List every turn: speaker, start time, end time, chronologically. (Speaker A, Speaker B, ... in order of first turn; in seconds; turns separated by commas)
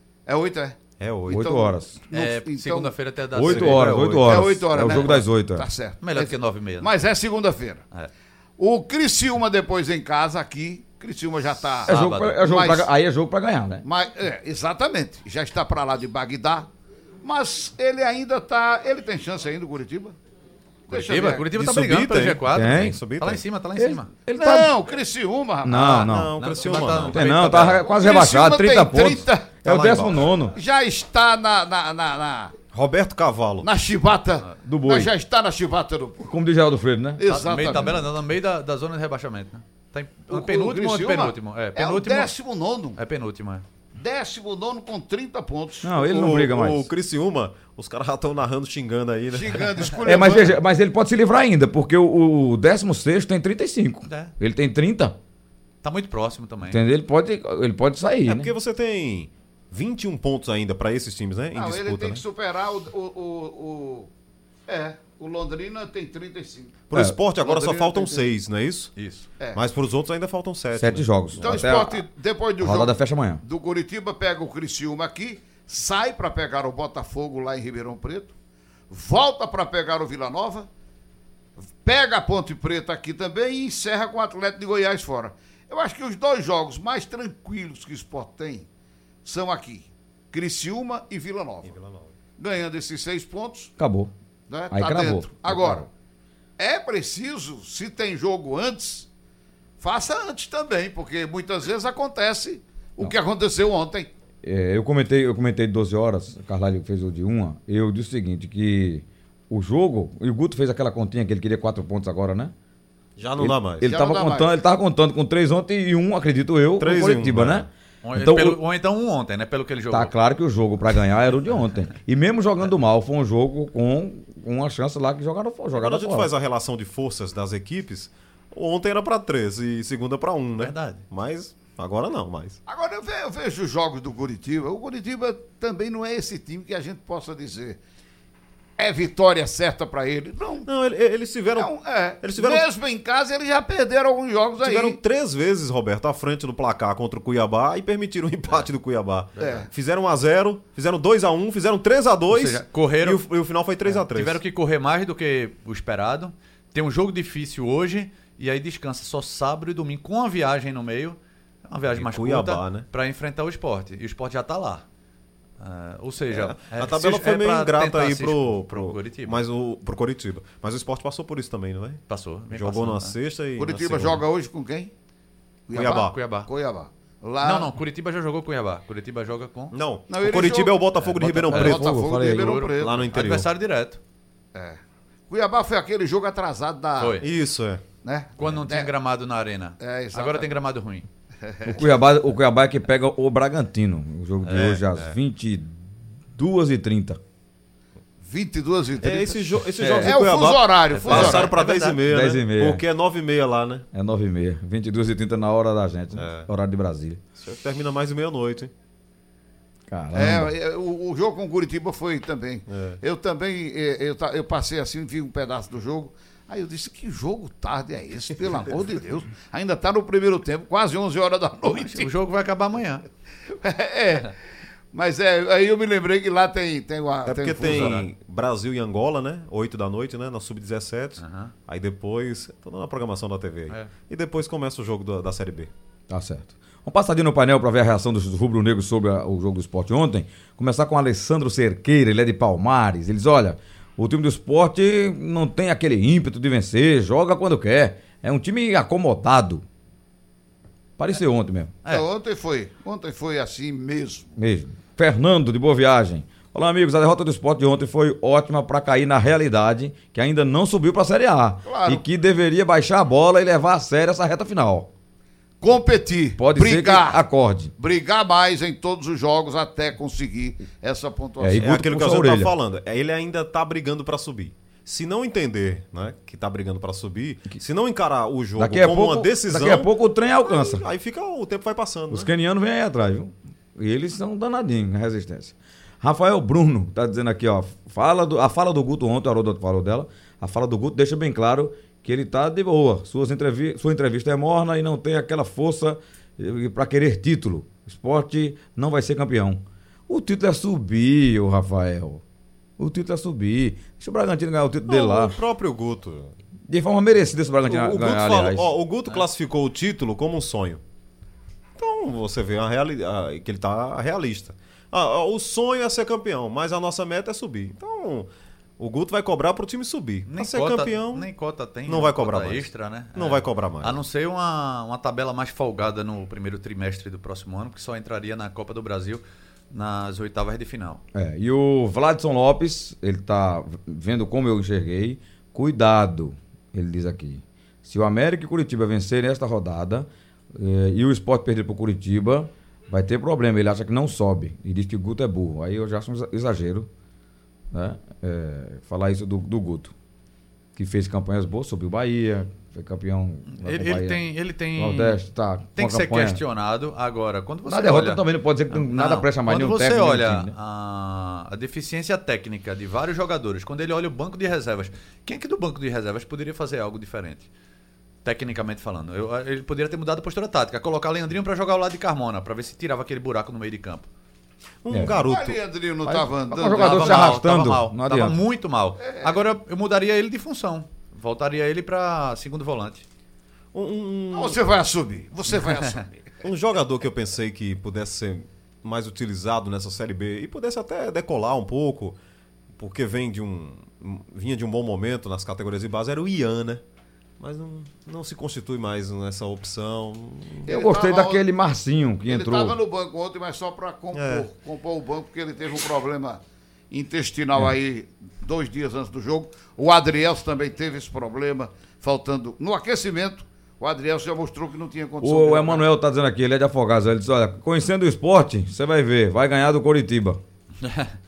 Speaker A: 0.2-0.8, Speaker B: 1.0-1.4, Speaker C: 1.3-2.0, Speaker A: 1.3-2.9, Speaker D: 2.1-4.1, Speaker C: 3.3-5.7, Speaker B: 3.4-4.5, Speaker A: 4.2-7.8, Speaker D: 6.0-6.9, Speaker A: 8.6-12.9, Speaker C: 11.8-13.8, Speaker D: 11.9-12.4, Speaker A: 13.8-16.7, Speaker A: 17.2-20.1, Speaker A: 20.9-21.5, Speaker D: 20.9-24.1, Speaker B: 21.6-23.4, Speaker C: 22.5-23.0, Speaker C: 23.8-24.7, Speaker A: 24.3-26.1, Speaker C: 25.6-26.3, Speaker B: 25.8-27.6, Speaker D: 26.4-27.8, Speaker C: 27.1-30.6, Speaker A: 27.8-29.5, Speaker B: 29.6-30.1, Speaker A: 30.5-32.5, Speaker B: 32.7-33.7, Speaker A: 33.6-36.3, Speaker C: 34.6-35.1, Speaker C: 36.2-37.2, Speaker A: 37.2-38.0, Speaker D: 37.2-42.3, Speaker A: 40.3-43.0, Speaker D: 43.0-43.6, Speaker A: 44.0-45.9, Speaker C: 45.8-46.9, Speaker B: 46.0-49.8, Speaker A: 49.3-50.6, Speaker C: 50.0-55.1, Speaker D: 54.0-54.3, Speaker D: 55.8-56.8, Speaker C: 56.6-58.5, Speaker B: 58.2-62.2, Speaker A: 61.5-64.1, Speaker A: 64.7-66.8, Speaker B: 66.9-68.9, Speaker A: 67.4-68.3, Speaker D: 69.0-69.3, Speaker B: 69.5-71.6, Speaker C: 70.8-72.0, Speaker A: 71.4-78.3, Speaker C: 72.6-73.4, Speaker A: 78.9-80.7, Speaker A: 81.8-88.7, Speaker A: 89.2-91.7, Speaker B: 91.6-92.1, Speaker A: 92.4-93.7, Speaker C: 93.8-94.1, Speaker A: 94.5-95.9, Speaker C: 94.7-95.9, Speaker A: 96.6-99.1, Speaker A: 99.8-104.1, Speaker C: 104.4-112.5, Speaker B: 113.2-113.9, Speaker C: 113.4-118.6, Speaker A: 113.8-114.5, Speaker B: 116.8-117.7, Speaker D: 118.0-120.1, Speaker C: 119.9-126.3, Speaker B: 125.7-132.6, Speaker D: 130.6-131.0, Speaker A: 132.7-137.8, Speaker A: 138.8-140.7, Speaker B: 140.6-142.7, Speaker A: 141.6-145.0, Speaker B: 144.6-154.4, Speaker D: 149.4-149.6, Speaker A: 149.4-149.7, Speaker D: 152.3-153.2, Speaker D: 153.8-164.8, Speaker B: 161.9-162.9, Speaker D: 165.6-169.4, Speaker B: 166.3-174.2, Speaker D: 172.1-173.2, Speaker A: 173.6-174.9, Speaker A: 175.7-177.7, Speaker B: 175.7-176.1, Speaker D: 175.8-176.5, Speaker D: 177.4-179.7, Speaker B: 179.7-181.9, Speaker A: 180.1-180.8, Speaker D: 181.0-184.0, Speaker C: 181.2-182.6, Speaker A: 181.5-183.1, Speaker B: 182.8-183.5, Speaker A: 184.5-187.2, Speaker D: 187.0-187.2, Speaker B: 187.2-187.8, Speaker A: 188.0-188.9, Speaker D: 188.4-191.0, Speaker A: 189.8-190.5, Speaker A: 191.4-191.9, Speaker C: 191.6-195.8, Speaker D: 194.4-194.8, Speaker B: 194.5-195.1, Speaker C: 196.3-197.2, Speaker A: 198.2-199.4, Speaker B: 199.0-203.8, Speaker C: 199.8-200.2, Speaker A: 200.0-201.5, Speaker D: 200.9-202.0, Speaker C: 202.0-202.8, Speaker C: 203.9-207.2, Speaker B: 206.1-206.5, Speaker B: 207.4-208.7, Speaker C: 209.9-210.5, Speaker A: 210.1-222.1, Speaker B: 212.7-213.0, Speaker D: 221.7-223.0, Speaker A: 223.5-224.3, Speaker A: 224.9-228.0, Speaker B: 227.2-235.7, Speaker D: 227.7-228.1, Speaker D: 231.2-231.5, Speaker C: 236.1-249.6, Speaker C: 251.0-251.8, Speaker A: 251.9-254.3, Speaker C: 254.4-264.9, Speaker A: 261.6-262.0, Speaker A: 265.6-267.2, Speaker C: 266.4-267.7, Speaker A: 267.8-271.6, Speaker C: 271.4-272.5, Speaker B: 271.6-279.9, Speaker C: 278.6-280.8, Speaker B: 280.4-282.3, Speaker C: 282.1-302.2, Speaker C: 302.8-305.4, Speaker B: 304.9-306.4, Speaker C: 306.7-308.7, Speaker B: 307.6-310.8, Speaker B: 311.8-321.3, Speaker D: 320.3-331.0, Speaker B: 321.9-324.0, Speaker C: 331.1-346.9, Speaker C: 347.7-349.9, Speaker C: 350.8-356.4, Speaker D: 353.5-355.2, Speaker D: 355.8-367.5, Speaker C: 357.6-360.5, Speaker D: 368.2-374.1, Speaker B: 374.8-375.6, Speaker C: 374.9-375.2, Speaker A: 375.2-377.4, Speaker C: 376.0-378.4, Speaker D: 376.7-383.0, Speaker A: 379.0-379.4, Speaker B: 383.7-384.6, Speaker A: 384.3-386.3, Speaker B: 386.4-392.1, Speaker B: 392.8-396.8, Speaker B: 397.4-400.7, Speaker A: 400.6-401.4, Speaker C: 400.6-402.8, Speaker A: 402.3-415.8, Speaker B: 404.1-404.5, Speaker C: 415.2-420.4, Speaker D: 420.8-421.1